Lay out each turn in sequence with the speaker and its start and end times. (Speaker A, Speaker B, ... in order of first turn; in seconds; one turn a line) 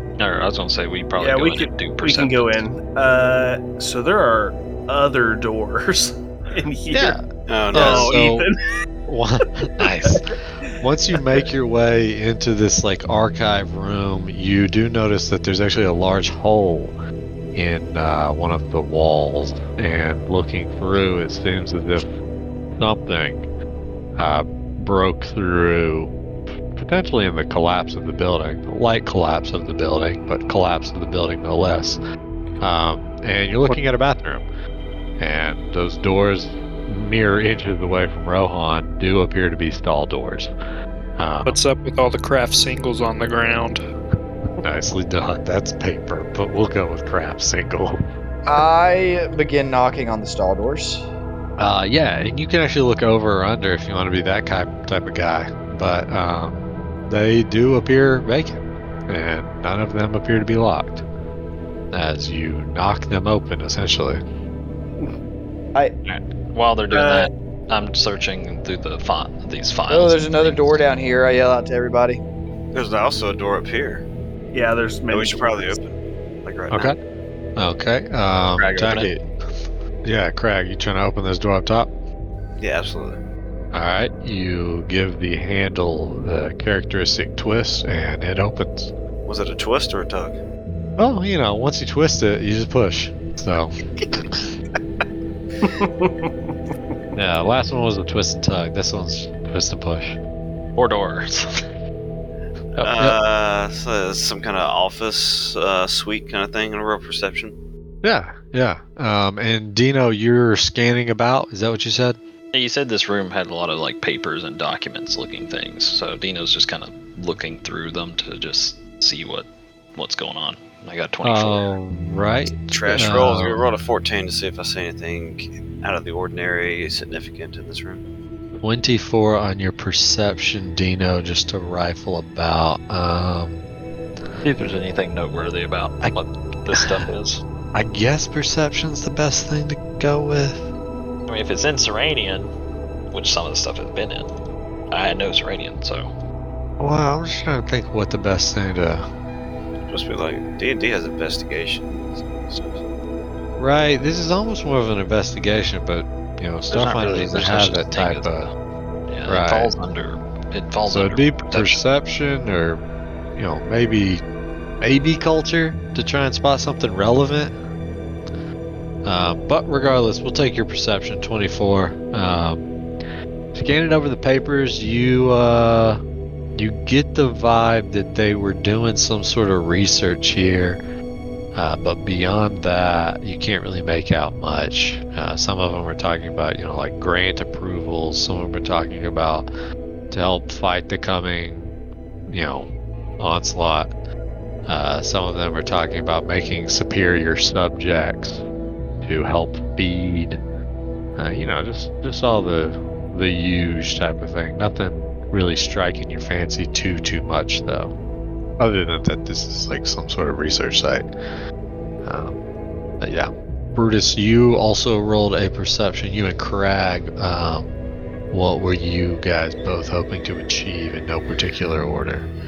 Speaker A: 0.2-2.6
Speaker B: 1.2-7.2
Speaker C: 6.9-8.5
Speaker D: 7.5-8.2
Speaker B: 7.7-8.6
Speaker C: 9.1-16.9
Speaker B: 10.1-10.7
Speaker C: 17.5-22.1
Speaker C: 22.8-23.5
Speaker C: 24.2-26.1
Speaker C: 26.7-32.0
Speaker C: 32.6-34.5
Speaker C: 35.2-40.5
Speaker C: 41.2-41.6
Speaker E: 41.5-43.8
Speaker C: 44.6-48.1
Speaker F: 48.5-51.0
Speaker C: 51.6-61.0
Speaker C: 61.9-64.2
Speaker A: 66.0-70.8
Speaker B: 66.9-67.3
Speaker F: 69.9-72.2
Speaker D: 72.7-74.0
Speaker B: 74.5-75.8
Speaker D: 75.1-77.0
Speaker C: 76.7-77.0
Speaker C: 77.6-79.2
Speaker A: 78.6-79.1
Speaker C: 80.0-81.9
Speaker D: 82.6-83.2
Speaker C: 83.7-88.9
Speaker D: 89.3-90.4
Speaker C: 91.0-93.8
Speaker B: 95.6-96.5
Speaker C: 97.1-100.2
Speaker A: 100.8-101.6
Speaker D: 102.8-107.5
Speaker C: 108.0-112.2
Speaker A: 112.5-121.7
Speaker C: 121.2-123.7
Speaker D: 122.7-128.0
Speaker C: 128.6-133.6
Speaker A: 134.4-137.4
Speaker C: 136.7-137.0
Speaker C: 137.7-140.7
Speaker A: 141.3-142.5
Speaker A: 143.1-144.3
Speaker A: 144.9-146.1
Speaker C: 146.8-149.1
Speaker D: 149.9-152.8
Speaker C: 153.6-158.5
Speaker A: 156.7-158.5
Speaker A: 159.1-161.8
Speaker C: 159.3-159.7
Speaker C: 160.9-162.8
Speaker C: 163.4-164.2
Speaker C: 164.8-167.5
Speaker C: 169.1-172.7
Speaker C: 173.5-176.0
Speaker C: 176.6-180.8
Speaker C: 181.6-189.5
Speaker C: 190.1-191.7
Speaker C: 192.3-193.9
Speaker C: 194.7-198.4
Speaker C: 199.0-200.4
Speaker C: 201.2-207.9
Speaker C: 208.6-211.1
Speaker C: 212.0-212.4
Speaker C: 213.0-217.7
Speaker C: 218.3-222.3